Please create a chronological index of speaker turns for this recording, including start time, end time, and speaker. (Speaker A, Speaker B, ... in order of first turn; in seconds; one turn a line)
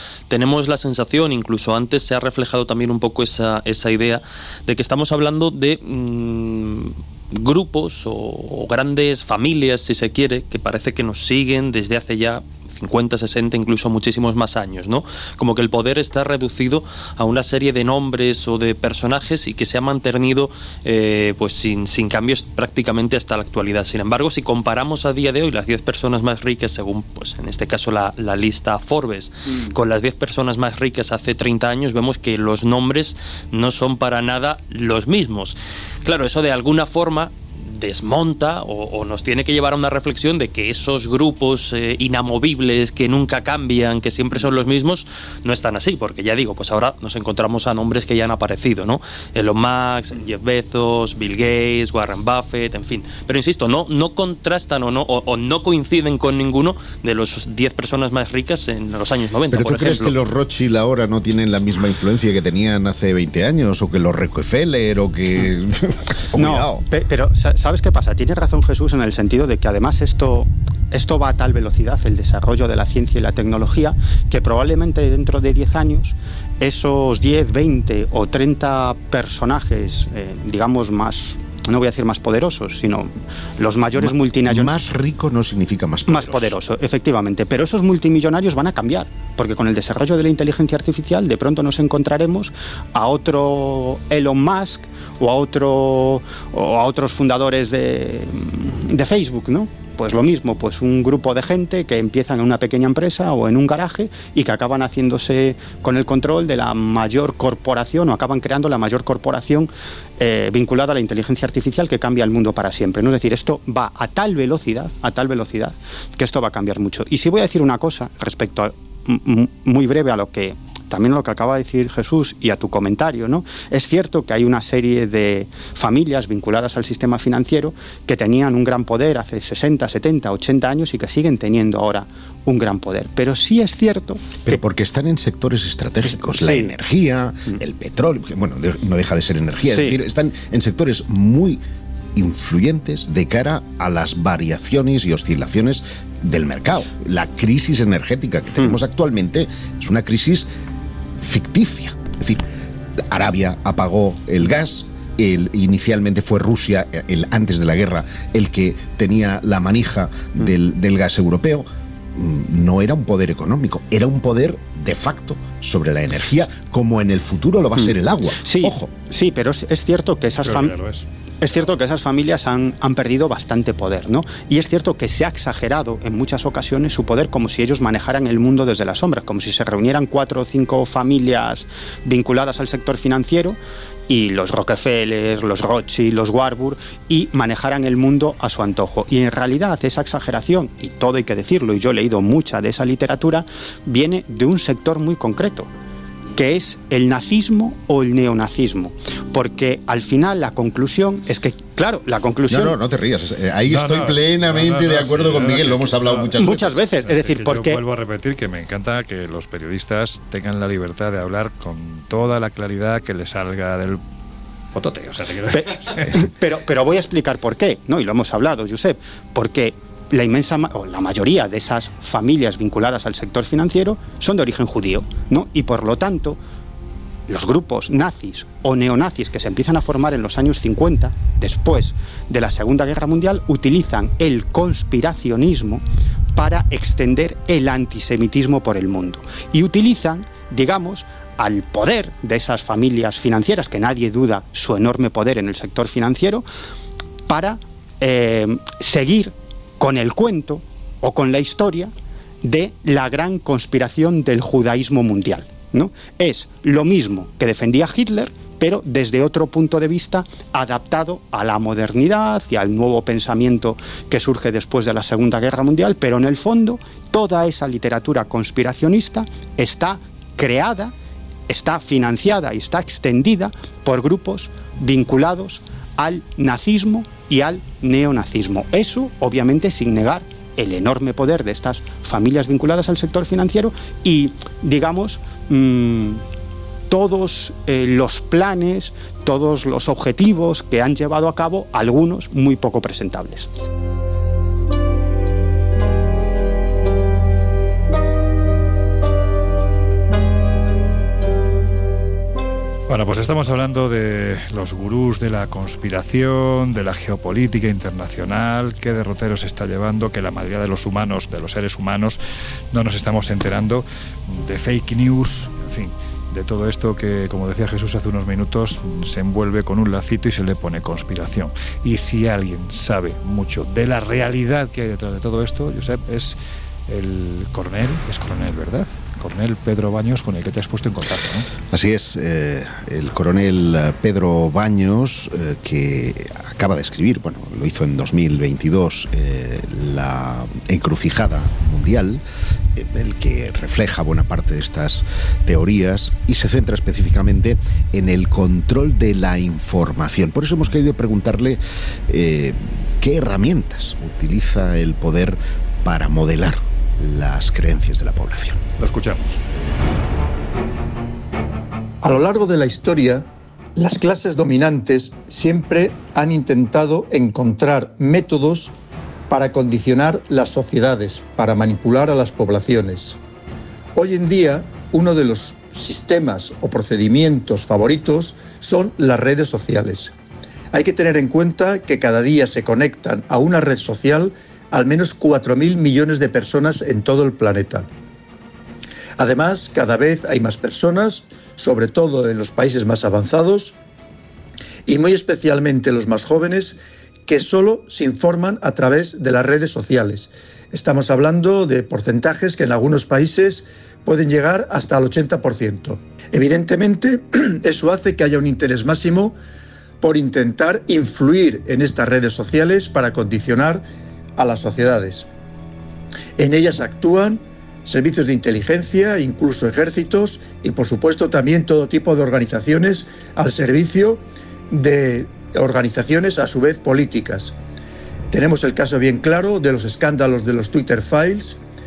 Speaker A: 0.3-60.2
Speaker B: 59.5-66.8
Speaker C: 66.3-84.8
Speaker B: 84.0-86.5
Speaker C: 86.1-134.6
Speaker B: 134.4-141.6
Speaker C: 136.2-136.7
Speaker C: 139.7-140.0
Speaker B: 142.2-150.5
Speaker B: 151.2-152.4
Speaker B: 153.1-168.9
Speaker C: 167.8-170.8
Speaker D: 170.4-171.1
Speaker C: 171.4-195.7
Speaker C: 196.3-202.8
Speaker B: 202.5-206.8
Speaker D: 203.7-206.4
Speaker C: 206.4-207.8
Speaker D: 207.0-214.0
Speaker D: 214.7-216.2
Speaker C: 215.5-226.4
Speaker C: 227.3-235.8
Speaker C: 236.3-246.4
Speaker C: 247.3-270.9
Speaker C: 271.5-286.2
Speaker C: 286.9-293.5
Speaker D: 302.9-312.2
Speaker D: 312.7-326.4
Speaker D: 326.9-331.5
Speaker B: 331.7-342.2
Speaker B: 342.8-358.6
Speaker D: 358.8-359.4
Speaker E: 362.0-368.7
Speaker E: 369.3-373.2
Speaker E: 373.9-380.1
Speaker E: 380.7-387.9
Speaker E: 389.2-393.8
Speaker E: 394.9-409.4
Speaker E: 410.0-413.9
Speaker E: 414.4-415.3
Speaker E: 416.4-427.6
Speaker E: 428.3-431.6